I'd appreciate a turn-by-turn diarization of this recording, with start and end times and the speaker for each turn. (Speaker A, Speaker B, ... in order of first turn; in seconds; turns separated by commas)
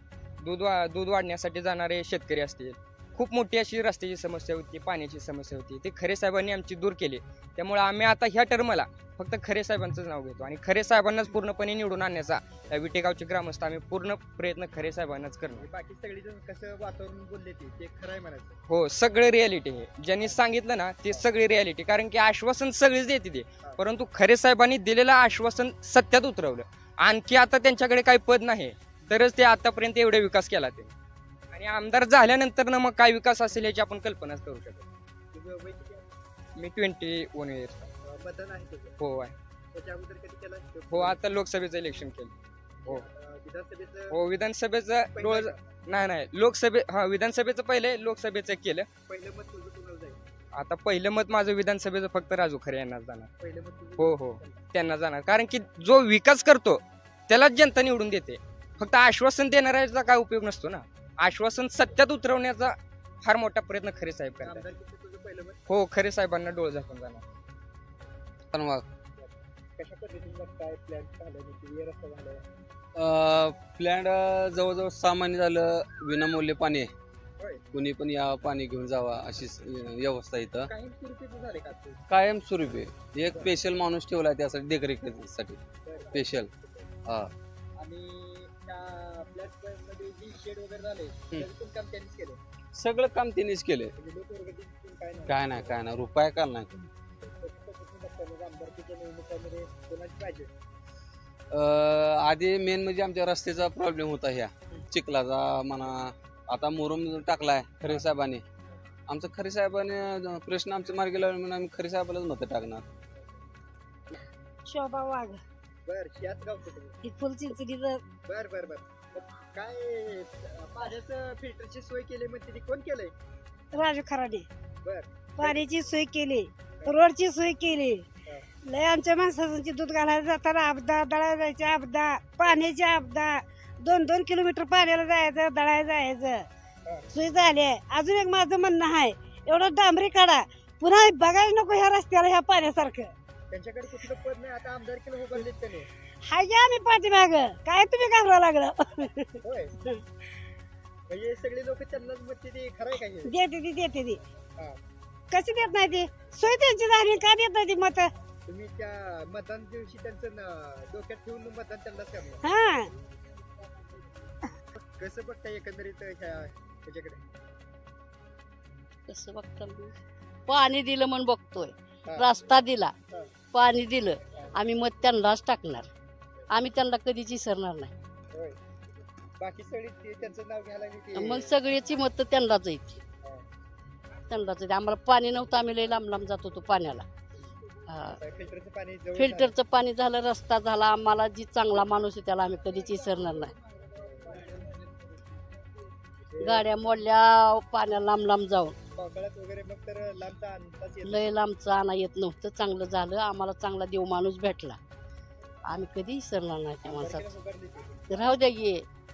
Speaker A: 0.4-15.7, Speaker B: 15.6-18.6, Speaker A: 18.7-30.9, Speaker A: 31.5-34.9, Speaker B: 35.3-36.1, Speaker A: 36.6-37.9, Speaker B: 38.0-39.0, Speaker A: 39.0-39.4, Speaker B: 39.7-41.2, Speaker A: 40.9-42.3, Speaker B: 42.9-44.2, Speaker A: 44.1-48.9, Speaker B: 45.1-45.6, Speaker B: 49.1-50.2, Speaker A: 50.5-53.3, Speaker B: 53.4-54.5, Speaker A: 54.0-64.7, Speaker B: 64.4-65.6, Speaker A: 65.7-67.2, Speaker C: 68.5-68.8, Speaker B: 69.2-72.5, Speaker C: 73.0-76.9, Speaker C: 77.7-80.7, Speaker B: 80.7-82.0, Speaker C: 82.1-85.6, Speaker B: 85.9-86.9, Speaker C: 86.1-86.5, Speaker C: 87.0-87.3, Speaker B: 87.8-92.4, Speaker C: 92.8-93.9, Speaker B: 94.0-95.8, Speaker C: 95.2-96.9, Speaker B: 97.2-100.5, Speaker C: 101.5-108.4, Speaker C: 109.1-112.9, Speaker D: 114.7-115.4, Speaker B: 115.9-117.0, Speaker D: 117.0-118.0, Speaker B: 118.3-123.1, Speaker D: 123.7-124.5, Speaker B: 124.8-125.6, Speaker D: 125.4-128.1, Speaker D: 128.7-136.5, Speaker D: 137.1-143.1, Speaker B: 143.5-145.9, Speaker D: 146.2-149.3, Speaker B: 149.4-149.7, Speaker B: 151.1-153.3, Speaker D: 153.3-154.2, Speaker D: 155.3-158.1, Speaker B: 158.5-162.4, Speaker D: 162.4-162.9, Speaker B: 164.9-167.2, Speaker E: 169.1-169.9, Speaker E: 170.5-172.9, Speaker E: 173.5-175.9, Speaker E: 176.5-177.9, Speaker B: 178.3-178.6, Speaker B: 179.4-181.6, Speaker E: 181.2-183.0, Speaker E: 184.3-187.1, Speaker E: 187.9-188.2, Speaker B: 188.2-189.5, Speaker E: 189.2-193.5, Speaker B: 194.0-194.8, Speaker B: 196.2-196.8, Speaker E: 196.4-198.8, Speaker B: 198.9-201.4, Speaker E: 201.1-204.8, Speaker E: 205.7-207.3, Speaker B: 206.8-208.1, Speaker E: 208.1-208.8